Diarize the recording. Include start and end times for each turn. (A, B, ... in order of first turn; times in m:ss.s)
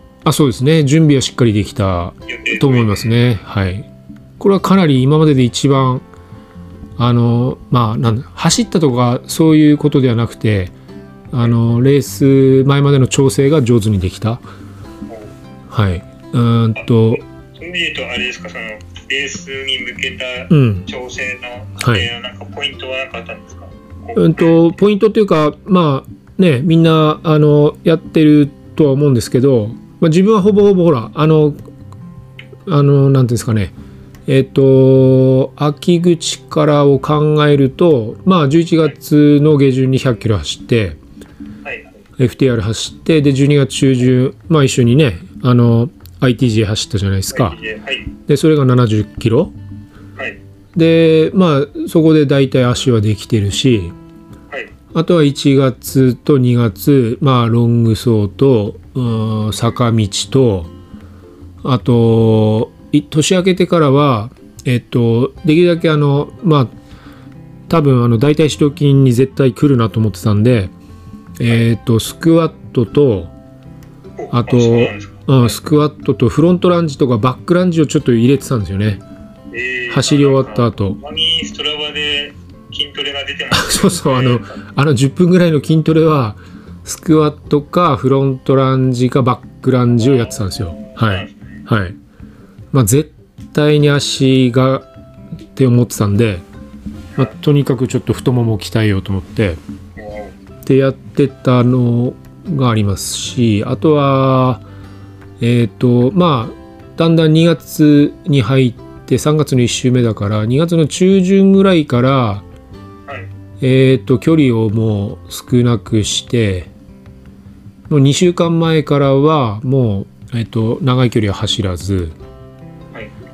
0:00.2-0:03.9 A
0:02.3-0:03.1 B
0:04.4-0:06.0 A
0:07.0-0:10.7 A
0:11.3-0:14.4 A
0:15.1-0:15.4 B
0:15.7-0:17.2 A
0:16.8-0:24.7 B
0:20.5-0:20.9 A
0:21.8-0:22.1 A
0:24.2-0:31.6 A
0:32.7-0:33.7 A
0:34.3-0:41.0 A
0:41.6-0:42.0 B
0:42.2-0:47.6 A
0:47.3-0:48.1 B
0:48.3-0:49.5 A
0:50.8-0:54.0 A
0:54.9-1:00.7 A
1:01.6-1:06.7 A
1:07.7-1:10.7 A
1:11.4-1:13.3 A
1:14.2-1:15.6 B
1:14.3-1:19.0 A
1:19.5-1:24.6 B
1:19.9-1:21.0 A
1:23.5-1:32.0 A
1:30.0-1:31.6 B
1:32.7-1:34.9 A
1:35.6-1:36.4 A
1:37.2-1:39.6 A
1:40.0-1:40.4 B
1:40.6-1:44.6 A
1:45.4-1:52.4 A
1:53.6-1:56.7 A
1:57.9-2:02.2 A